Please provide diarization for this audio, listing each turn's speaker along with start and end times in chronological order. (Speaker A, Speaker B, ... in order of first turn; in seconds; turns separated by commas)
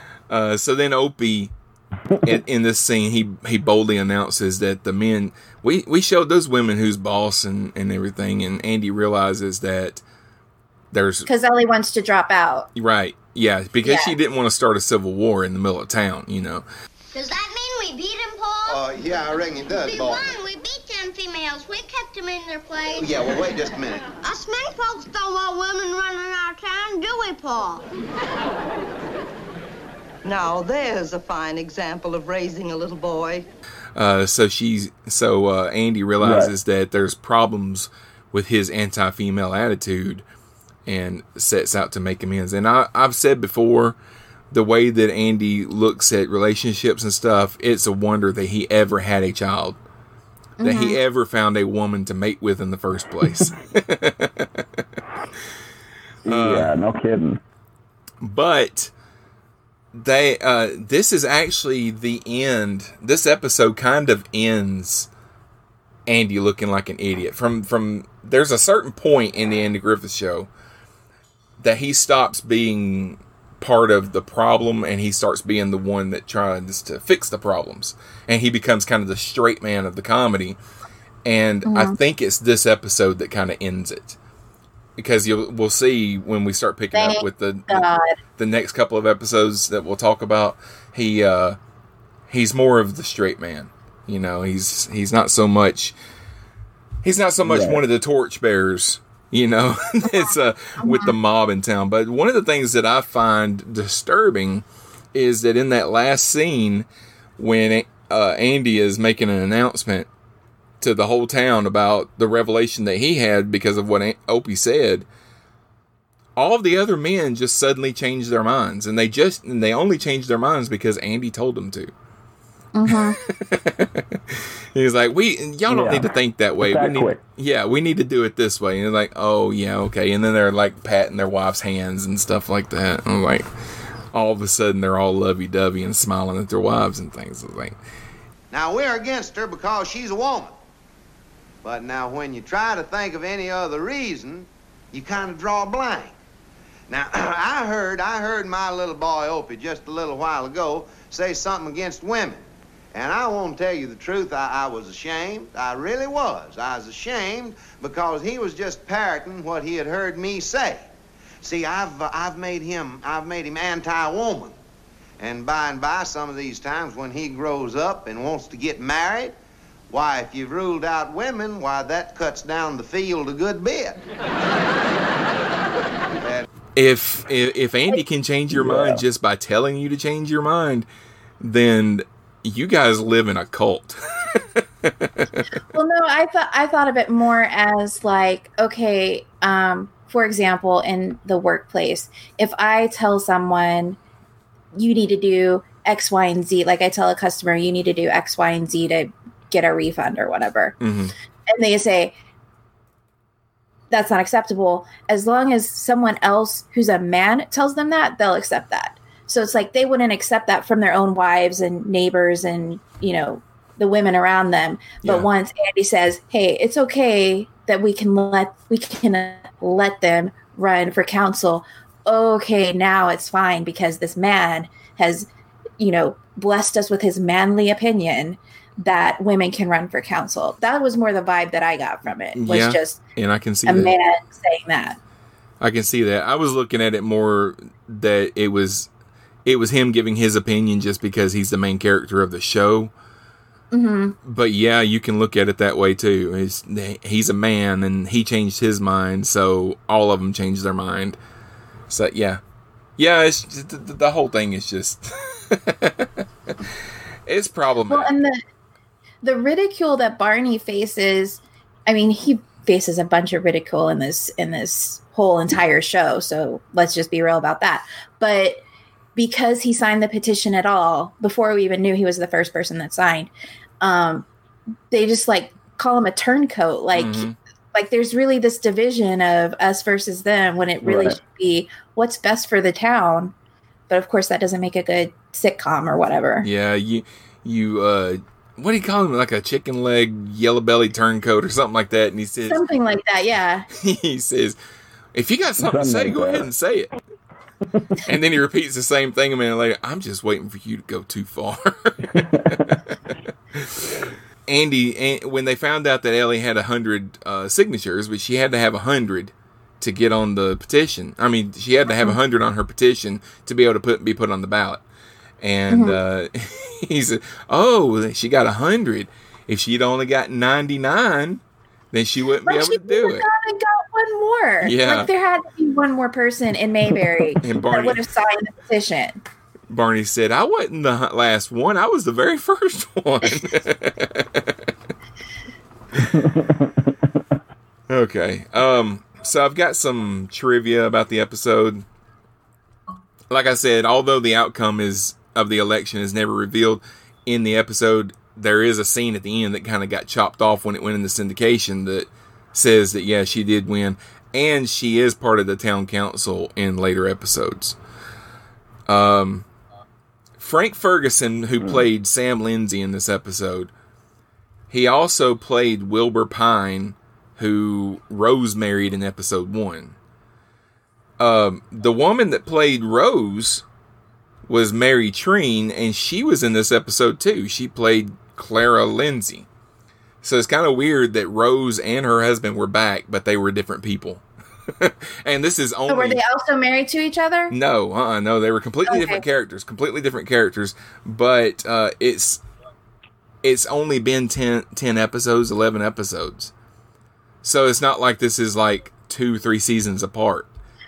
Speaker A: 0.3-1.5, Speaker A: 2.2-10.0, Speaker A: 10.9-11.3, Speaker B: 11.3-12.7, Speaker A: 12.8-16.6, Speaker B: 13.8-14.1, Speaker C: 17.1-18.8, Speaker D: 18.7-20.2, Speaker C: 19.8-23.3, Speaker D: 22.9-24.1, Speaker C: 24.2-27.9, Speaker E: 30.2-33.5, Speaker A: 34.0-40.2, Speaker F: 36.2-36.5, Speaker A: 40.9-44.0, Speaker A: 44.5-49.8, Speaker B: 50.6-51.0, Speaker A: 50.6-54.8, Speaker F: 56.2-57.4, Speaker A: 56.2-56.7, Speaker A: 58.2-58.9, Speaker A: 59.9-65.1, Speaker A: 66.1-70.5, Speaker A: 71.6-80.6, Speaker A: 81.2-84.2, Speaker B: 81.7-82.0, Speaker A: 85.0-91.6, Speaker B: 86.9-88.1, Speaker A: 92.3-95.9, Speaker A: 97.0-106.8, Speaker F: 97.4-97.8, Speaker B: 100.0-101.1, Speaker A: 107.4-110.1, Speaker A: 110.8-115.0, Speaker A: 116.3-121.9, Speaker B: 122.7-123.2, Speaker A: 122.9-133.5, Speaker F: 125.7-127.2, Speaker A: 134.1-137.8, Speaker D: 138.5-140.5, Speaker D: 141.6-146.2, Speaker D: 146.9-160.9, Speaker D: 161.4-164.6, Speaker D: 165.2-169.3, Speaker D: 169.9-174.0, Speaker D: 176.2-176.4, Speaker A: 176.8-180.9, Speaker F: 178.5-179.0, Speaker A: 181.4-185.1, Speaker B: 185.7-194.0, Speaker B: 194.7-200.8, Speaker A: 200.8-201.1, Speaker B: 201.5-202.1, Speaker B: 203.9-225.3, Speaker A: 215.0-215.3, Speaker B: 225.8-233.0, Speaker A: 232.3-233.9, Speaker B: 233.7-235.0, Speaker A: 235.6-238.9, Speaker A: 239.4-242.9, Speaker B: 243.7-244.2, Speaker A: 244.2-251.2, Speaker A: 251.9-252.4, Speaker A: 253.0-256.7, Speaker A: 257.2-258.1, Speaker B: 257.9-258.4, Speaker B: 259.2-268.6, Speaker B: 269.1-274.3, Speaker B: 274.9-283.3, Speaker A: 276.9-277.3, Speaker F: 280.8-281.2, Speaker B: 283.9-286.5, Speaker A: 286.4-292.7, Speaker B: 292.5-293.7, Speaker A: 293.7-294.6, Speaker A: 295.1-296.9, Speaker F: 295.6-296.5, Speaker A: 298.0-303.0, Speaker F: 302.1-302.8, Speaker A: 303.5-314.8, Speaker A: 315.4-323.2, Speaker B: 315.7-316.0, Speaker B: 322.4-329.2, Speaker A: 324.6-325.1, Speaker A: 327.4-328.0, Speaker A: 329.7-334.5, Speaker F: 336.1-336.9, Speaker A: 337.9-341.8, Speaker A: 343.3-357.8, Speaker A: 358.9-359.5, Speaker A: 360.4-363.7, Speaker A: 364.7-369.9, Speaker A: 371.2-373.6, Speaker A: 374.5-379.5, Speaker A: 380.2-384.2, Speaker A: 384.8-386.2, Speaker B: 385.9-387.5, Speaker A: 387.5-392.4, Speaker B: 388.9-389.2, Speaker A: 393.4-396.5, Speaker A: 397.4-400.5